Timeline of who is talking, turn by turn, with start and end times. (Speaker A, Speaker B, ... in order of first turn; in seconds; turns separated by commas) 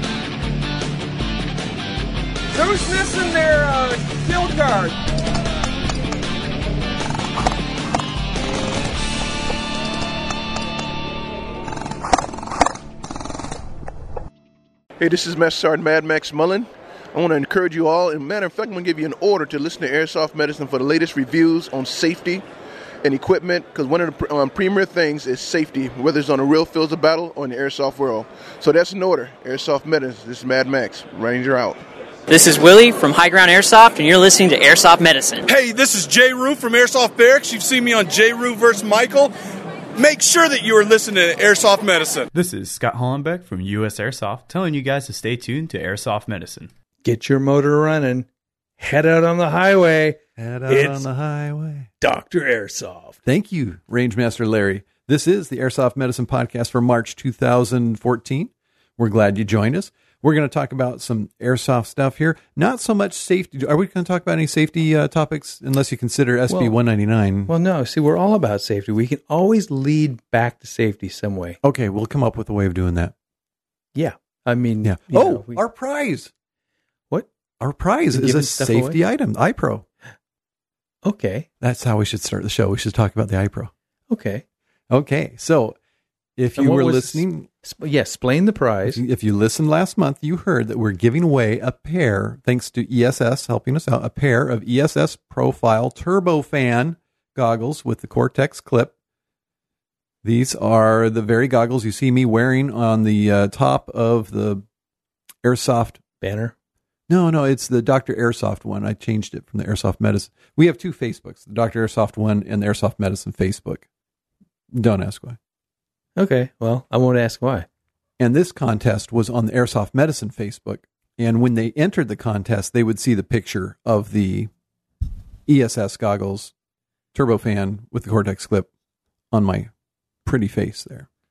Speaker A: 2.5-5.0, Speaker B: 15.0-22.4, Speaker B: 23.0-31.8, Speaker C: 32.3-35.5, Speaker D: 35.5-39.3, Speaker D: 40.0-42.3, Speaker E: 42.3-46.7, Speaker F: 47.0-48.3, Speaker F: 48.8-51.1, Speaker G: 50.4-51.9, Speaker F: 52.0-53.2, Speaker G: 53.3-67.5, Speaker F: 66.5-66.8, Speaker F: 67.5-71.6, Speaker G: 71.6-73.1, Speaker F: 74.0-75.6, Speaker G: 74.8-76.3, Speaker G: 77.6-79.8, Speaker F: 78.1-79.0, Speaker F: 81.0-81.5, Speaker G: 81.6-83.7, Speaker F: 84.1-84.4, Speaker G: 84.9-85.8, Speaker G: 86.4-87.5, Speaker F: 86.6-89.0, Speaker G: 88.9-98.9, Speaker G: 100.2-104.6, Speaker G: 105.4-106.0, Speaker F: 106.2-106.5, Speaker G: 107.1-113.8, Speaker G: 114.7-115.4, Speaker F: 116.2-117.7, Speaker G: 118.2-124.5, Speaker G: 125.5-126.5, Speaker G: 127.1-128.7, Speaker G: 129.3-129.7, Speaker G: 130.2-131.1